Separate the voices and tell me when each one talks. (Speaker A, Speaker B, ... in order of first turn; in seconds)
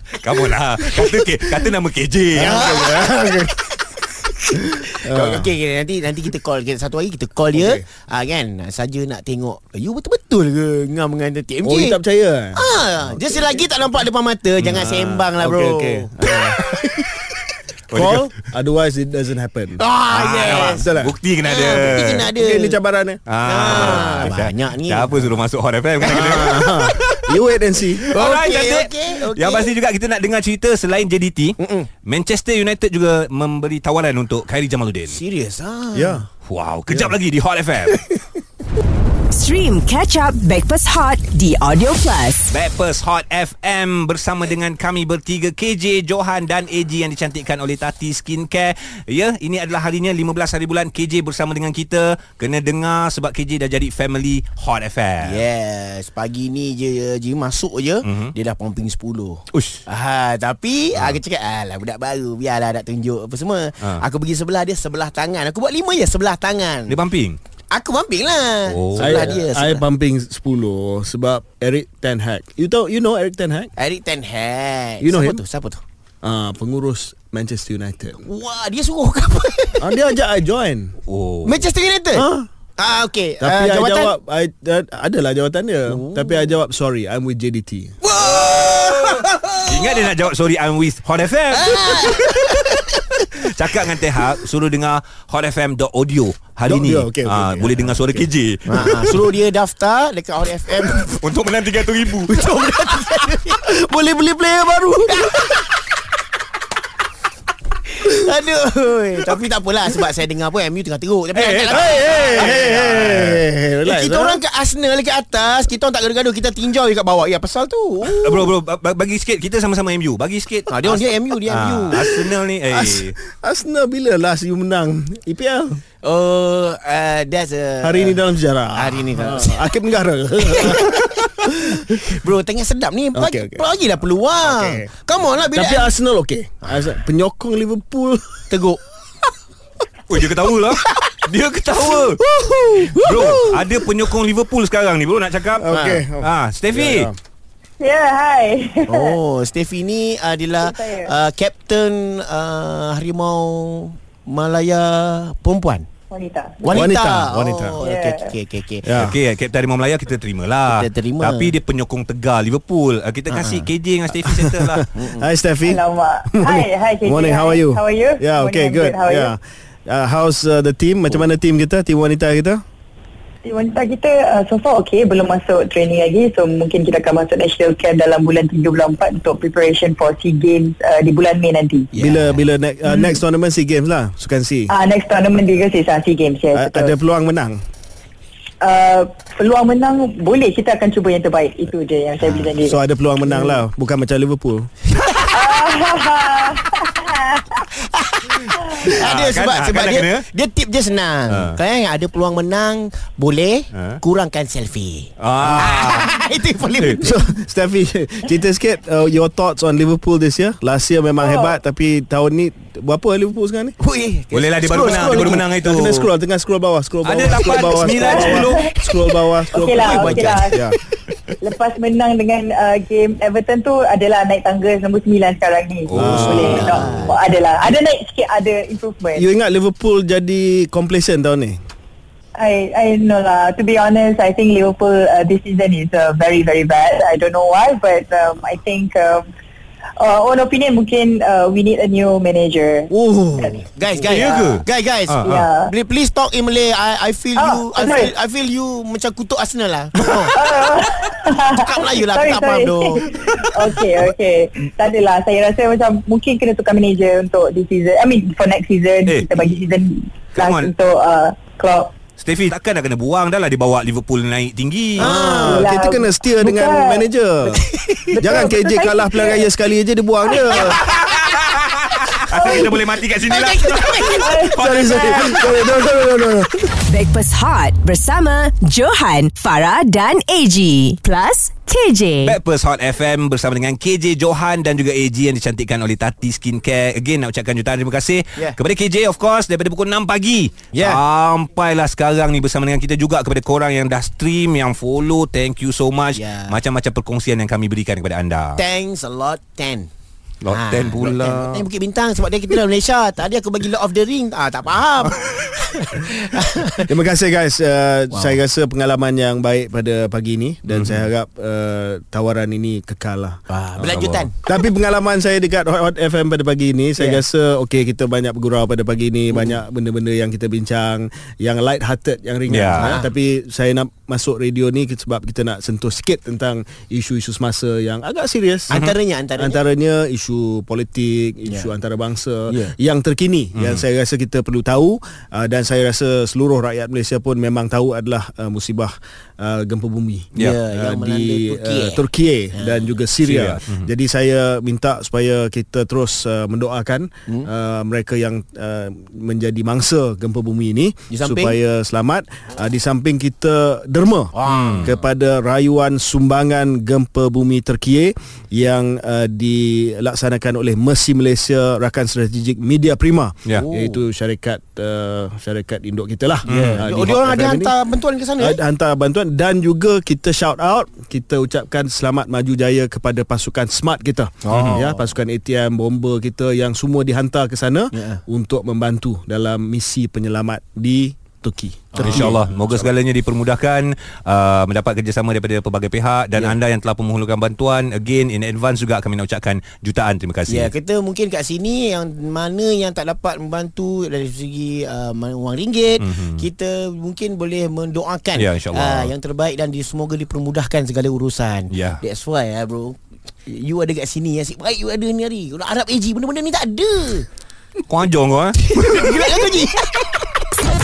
Speaker A: 0.2-2.7, 14.6-15.3, 17.9-18.3, 20.1-22.3, 23.3-27.4, 28.1-35.2, 36.4-38.0, 42.5-55.4, 58.0-58.3, 59.5-59.8, 60.9-61.2, 66.9-67.4, 68.7-69.3, 81.1-81.6, 88.2-92.5, 93.2-99.3, 101.1-102.5, 111.3-113.3, 118.1-123.2, 140.1-142.2, 142.9-147.1, 158.9-164.9, 198.8-200.3, 201.3-201.6, 203.7-204.0, 205.2-206.1, 206.7-207.0, 214.3-216.1, 217.0-218.7, 225.9-227.1, 244.0-245.5, 259.1-259.5, 260.4-260.7, 262.2-265.4, 270.5-275.6, 282.2-298.6, 300.4-301.7, 310.7-311.1, 313.8-314.3, 322.5-323.0, 333.6-333.8, 340.3-340.6, 343.2-343.9, 354.5-354.9, 366.5-366.8, 374.5-374.8, 382.0-390.7, 396.0-396.5, 398.4-399.1, 401.7-402.0, 407.9-409.4
Speaker B: 2.4-3.5, 5.0-5.5, 7.5-7.8, 11.6-12.7, 15.4-17.2, 17.9-19.8, 20.6-21.2, 21.9-24.3, 26.0-28.2, 35.9-36.3, 36.9-37.2, 69.0-73.7, 75.0-75.4, 76.2-78.2, 79.8-80.9, 82.1-82.5, 83.4-87.9, 96.7-98.3, 103.6-105.6, 111.6-114.4, 122.7-125.8, 127.8-132.0, 133.2-133.7, 134.4-134.9, 135.5-138.5, 142.4-143.0, 145.6-147.2, 156.7-157.8, 158.8-159.2, 164.3-172.6, 182.0-184.7, 186.5-187.6, 192.5-194.7, 205.4-205.7, 207.0-213.8, 214.8-220.8, 225.9-227.0, 229.2-231.6, 242.9-243.6, 265.0-267.6, 268.2-270.9, 274.5-276.7, 306.9-313.4, 314.4-328.8, 329.4-367.7, 368.4-382.5
Speaker C: 2.4-12.0, 12.6-17.0, 19.8-20.9, 21.4-22.8, 23.4-25.2, 26.0-26.8, 28.1-29.7, 31.6-31.9, 35.1-36.2, 55.2-67.0, 67.7-69.8, 73.8-75.8, 78.2-80.0, 81.5-84.1, 85.9-86.6, 88.0-90.1, 91.5-93.2, 98.7-101.2, 102.2-103.6, 105.1-105.8, 107.9-118.5, 120.7-122.1, 126.0-128.2, 128.7-129.8, 130.4-135.9, 138.5-138.8, 142.3-143.8, 145.7-146.1, 148.9-155.9, 156.7-158.9, 160.7-161.6, 163.3-163.7, 164.9-165.3, 181.9-182.5, 197.6-207.2, 213.8-215.6, 217.3-217.8, 219.1-220.7, 226.0-227.2, 243.6-250.4, 251.5-253.1, 265.0-265.6, 267.7-268.0, 273.2-274.4, 290.7-291.0, 296.1-296.6, 298.6-299.9, 300.5-306.9, 308.1-308.4, 313.5-314.4, 317.0-317.2, 319.3-319.6, 322.8-323.1, 328.7-329.6, 331.5-331.7, 332.5-332.8, 340.4-342.9, 351.1-351.6, 354.3-354.9, 363.5-364.0, 366.5-368.6, 374.4-375.1, 377.9-378.2, 381.9-382.9, 390.5-407.3, 408.6-410.3
Speaker D: 39.3-42.5, 276.9-282.4
Speaker E: 147.8-149.2, 150.6-151.1, 156.1-156.8, 157.8-158.3, 165.6-169.3, 173.4-181.9, 184.7-186.9, 188.6-192.8, 195.3-197.5, 198.5-198.9, 211.2-211.5, 217.8-218.8, 219.5-220.6, 221.4-229.2, 232.4-239.2, 240.0-244.6, 245.2-245.7, 247.4-248.1, 250.2-261.9, 265.4-267.1, 268.1-269.4, 272.3-272.8, 274.1-275.2